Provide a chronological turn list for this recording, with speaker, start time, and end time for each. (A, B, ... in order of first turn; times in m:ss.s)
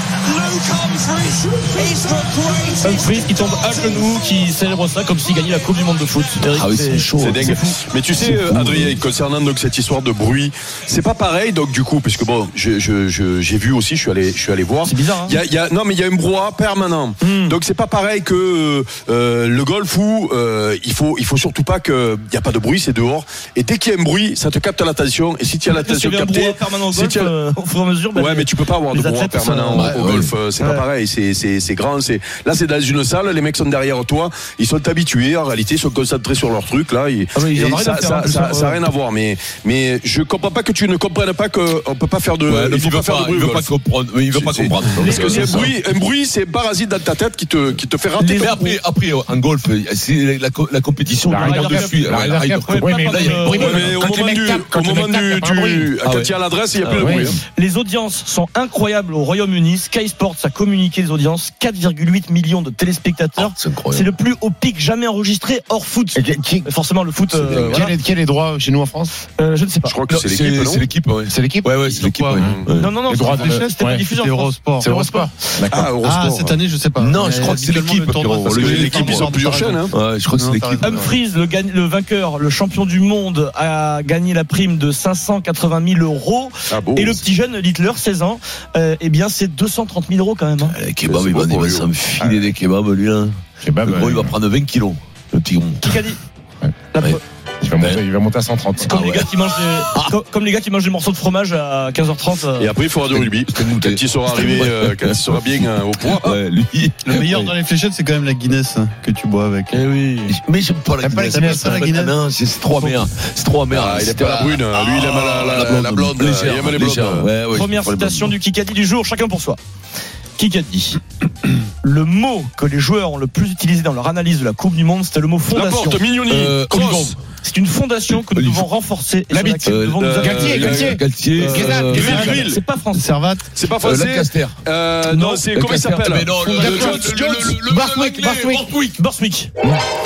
0:00.3-0:02.8 A
0:02.8-0:07.8 B
0:06.5-0:07.6 C
0:07.2-0:27.3 D
0:08.2-0:09.0 C
0:14.8-0:15.4 B
0:17.2-0:17.6 B
0:25.7-0:30.9 B
0:28.1-0:43.7 D
0:29.7-0:30.4 C
0:37.4-0:38.8 B
0:42.4-0:45.8 C
0:44.3-0:48.8 D
0:45.0-0:45.7 B
0:47.7-0:54.0 C
0:51.3-0:55.9 E
0:51.3-0:54.0 B
0:53.5-0:57.4 D
0:56.0-0:57.4 C
0:57.0-0:57.3 E
0:57.6-1:08.0 B
1:03.4-1:04.1 C
1:06.2-1:06.7 E
1:07.6-1:09.1 E
1:09.4-1:10.0 B
1:09.8-1:10.9 D
1:10.1-1:12.9 C
1:11.3-1:12.5 E
1:12.0-1:12.5 F
1:12.4-1:12.7 D
1:12.8-1:15.0 B
1:13.1-1:14.1 E
1:13.4-1:15.1 F
1:14.8-1:15.9 E
1:15.7-1:16.6 D
1:16.0-1:21.1 F
1:17.0-1:19.4 C
1:18.5-1:19.9 D
1:19.9-1:21.1 C
1:20.8-1:30.8 B
1:26.7-1:27.2 D
1:30.6-1:35.9 C
1:31.0-1:32.0 D
1:32.2-1:32.5 E
1:33.6-1:34.4 E
1:35.8-1:36.2 B
1:36.9-1:37.2 B
1:37.6-1:38.9 E
1:38.8-1:42.7 B
1:38.9-1:40.1 C
1:42.6-1:46.4 D
1:43.1-1:47.5 C
1:47.0-1:49.8 F
1:49.7-1:50.4 B
1:50.3-1:58.3 C
1:51.0-1:51.8 E
1:51.2-1:52.2 F
1:53.7-1:57.3 D
1:57.5-1:59.6 B
2:00.4-2:01.0 B
2:01.8-2:06.0 B
2:05.5-2:07.2 D
2:06.3-2:07.2 C
2:07.4-2:13.2 B
2:08.3-2:08.6 C
2:09.3-2:12.0 E
2:09.6-2:12.5 C
2:10.0-2:12.6 D
2:12.9-2:13.4 F
2:13.5-2:17.6 D
2:13.7-2:14.6 C
2:15.1-2:15.5 B
2:15.5-2:19.0 C
2:16.4-2:17.1 B
2:17.7-2:18.7 E
2:18.9-2:19.5 B